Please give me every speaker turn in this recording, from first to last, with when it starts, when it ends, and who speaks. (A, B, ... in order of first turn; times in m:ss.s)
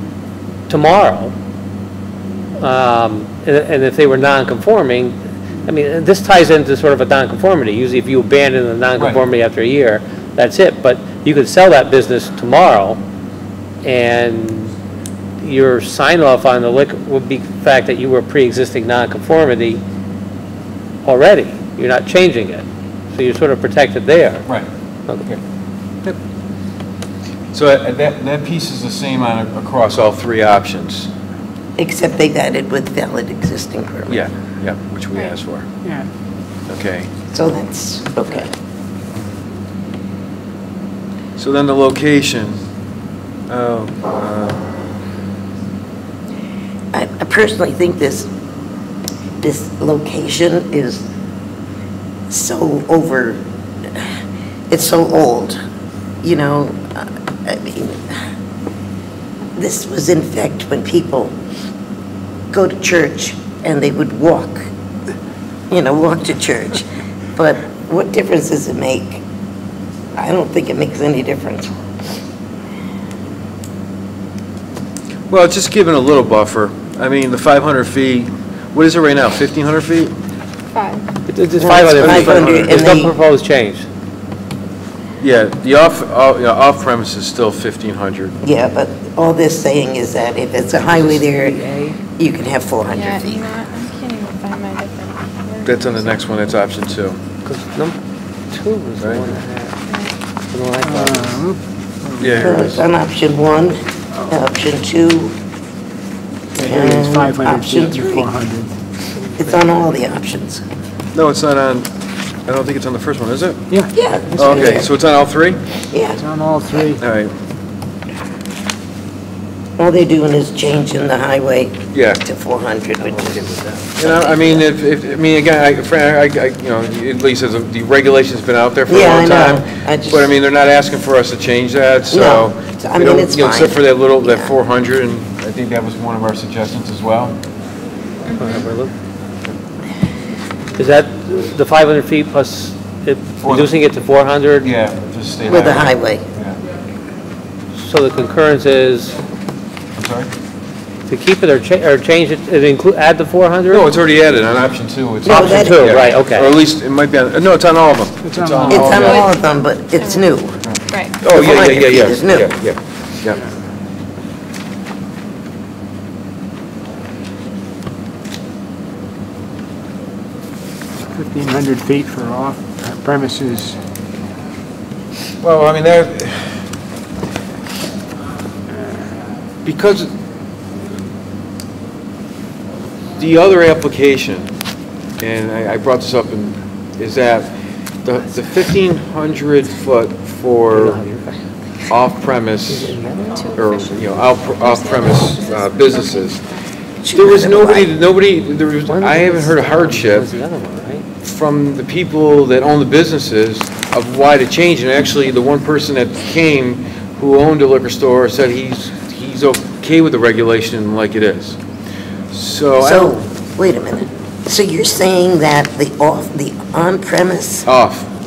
0:00.7-0:01.3 A
0:02.6-0:13.0 A
0:13.8-0:14.7 A
0:15.4-0:19.8 A
0:21.0-0:24.5 A
0:27.5-0:31.1 B
0:31.8-0:34.3 C
0:34.1-0:35.6 B
0:36.7-0:37.1 B
0:37.3-0:38.5 C
0:41.4-0:42.6 B
0:43.5-0:44.6 B
0:46.9-0:48.3 C
0:49.4-0:51.0 C
0:52.3-0:54.0 C
0:54.7-0:55.6 C
0:56.2-0:58.2 C
0:59.6-1:01.4 C
1:02.5-1:04.7 C
1:05.7-1:06.8 C
1:07.4-1:09.2 C
1:10.1-1:11.7 C
1:15.3-1:20.1 B
1:20.7-1:21.1 D
1:21.3-1:23.8 A
1:21.6-1:23.1 C
1:21.7-1:22.8 B
1:25.2-1:28.4 B
1:28.4-1:31.6 C
1:30.9-1:32.0 A
1:32.2-1:33.5 C
1:32.9-1:36.3 D
1:35.6-1:37.2 B
1:37.4-1:38.0 A
1:38.5-1:39.8 A
1:39.0-1:39.3 B
1:39.9-1:40.2 D
1:40.5-1:41.4 A
1:40.8-1:42.7 E
1:42.2-1:42.8 B
1:42.4-1:43.8 C
1:44.3-1:45.4 C
1:46.5-1:48.7 E
1:46.6-1:48.3 C
1:49.2-1:49.6 A
1:49.4-1:50.6 C
1:51.1-1:51.9 B
1:52.5-1:53.6 B
1:53.7-1:54.9 E
1:53.9-1:54.9 C
1:54.4-1:55.6 B
1:55.9-1:56.2 C
1:56.2-1:57.0 E
1:57.0-1:57.3 B
1:59.8-2:04.6 C
2:01.9-2:02.2 B
2:03.2-2:17.4 B
2:08.9-2:10.2 C
2:12.1-2:14.5 C
2:18.3-2:18.6 D
2:18.4-2:18.9 A
2:20.8-2:24.7 A
2:23.4-2:23.7 B
2:24.6-2:26.6 B
2:25.5-2:26.2 C
2:27.7-2:29.2 A
2:30.0-2:30.3 B
2:31.1-2:33.9 A
2:33.7-2:39.2 B
2:35.2-2:36.0 C
2:35.2-2:36.6 A
2:38.2-2:39.2 E
2:38.6-2:40.3 D
2:38.7-2:40.6 C
2:40.6-2:43.4 B
2:40.9-2:41.2 D
2:41.2-2:42.5 C
2:51.1-2:53.8 E
2:55.4-2:56.6 B
2:59.6-3:00.1 B
3:03.2-3:04.5 B
3:05.2-3:07.5 B
3:08.0-3:11.0 B
3:10.7-3:11.4 A
3:11.9-3:13.0 B
3:12.7-3:13.5 A
3:13.3-3:16.4 D
3:13.6-3:16.4 B
3:17.0-3:17.9 C
3:17.1-3:20.3 B
3:18.9-3:21.0 A
3:21.2-3:31.6 B
3:32.3-3:33.2 B
3:32.8-3:37.7 C
3:37.6-3:38.1 B